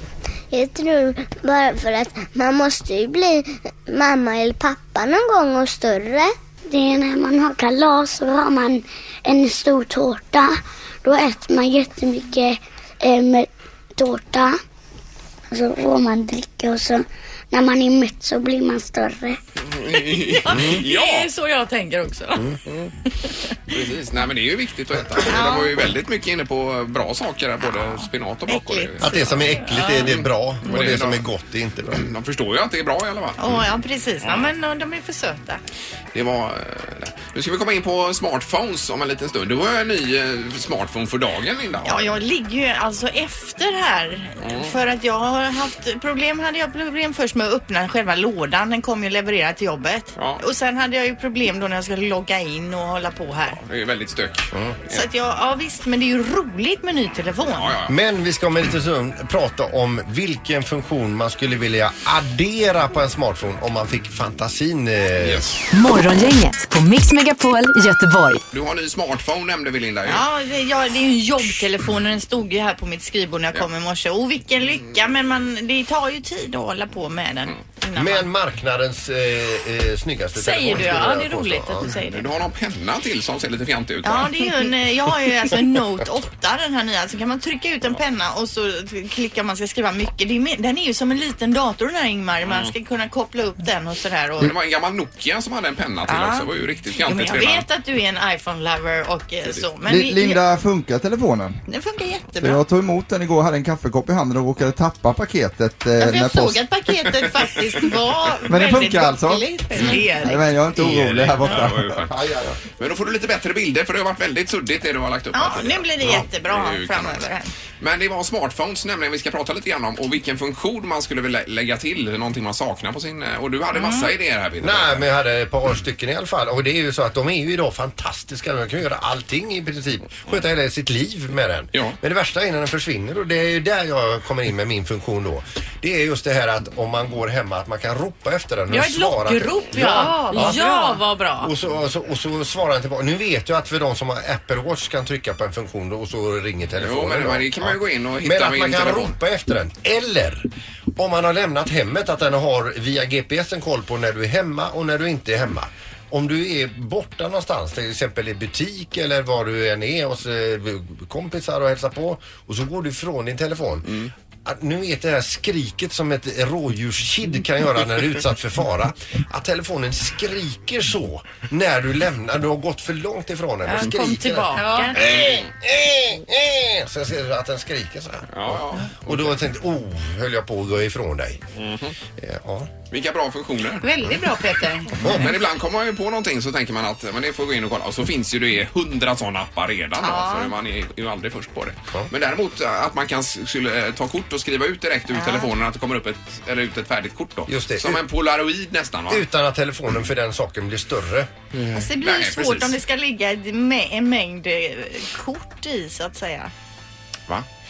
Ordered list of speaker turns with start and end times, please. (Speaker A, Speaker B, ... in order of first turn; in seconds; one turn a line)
Speaker A: 0.5-14.6
Speaker A: 15.5-19.4
Speaker B: 19.6-21.3
Speaker C: 20.2-22.5
Speaker D: 20.5-20.8
Speaker B: 23.7-29.4
Speaker C: 25.3-25.7
Speaker C: 27.6-30.1
Speaker D: 29.0-32.0
Speaker B: 29.9-31.2
Speaker B: 31.9-33.6
Speaker C: 33.4-35.6
Speaker B: 36.1-42.1
Speaker C: 41.8-53.6
Speaker B: 44.4-44.7
Speaker B: 50.1-50.4
Speaker B: 53.6-55.1
Speaker C: 54.9-57.7
Speaker B: 57.5-58.0
Speaker D: 57.9-65.5
Speaker B: 65.2-65.6
Speaker E: 65.7-68.4
Speaker B: 68.5-70.2
Speaker C: 70.1-78.3
Speaker D: 77.9-81.9
Speaker C: 80.3-82.3
Speaker B: 82.1-84.5
Speaker C: 84.0-94.5
Speaker B: 94.4-97.7
Speaker C: 96.1-96.5
Speaker C: 97.0-100.4
Speaker F: 99.9-101.6
Speaker C: 101.7-102.6
Speaker F: 102.4-106.6
Speaker C: 106.0-110.5
Speaker F: 108.5-112.6
Speaker B: 110.8-112.2
Speaker B: 112.7-117.3
Speaker C: 115.3-117.5
Speaker B: 117.8-125.1
Speaker C: 123.7-124.1
Speaker D: 124.6-140.6
Speaker C: 138.7-141.5
Speaker G: 139.8-141.0
Speaker D: 141.4-181.4
Speaker B: 146.8-149.1
Speaker C: 173.6-175.0
Speaker G: 174.5-174.9
Speaker B: 174.9-175.5
Speaker B: 178.3-179.4
Speaker B: 181.6-181.9
Speaker D: 182.2-182.7
Speaker B: 182.9-183.9
Speaker G: 183.8-185.1
Speaker D: 185.0-185.3
Speaker B: 185.0-199.2
Speaker C: 190.0-190.5
Speaker C: 195.1-195.5
Speaker D: 197.5-198.0
Speaker D: 199.1-201.3
Speaker B: 201.5-202.8
Speaker C: 201.7-206.5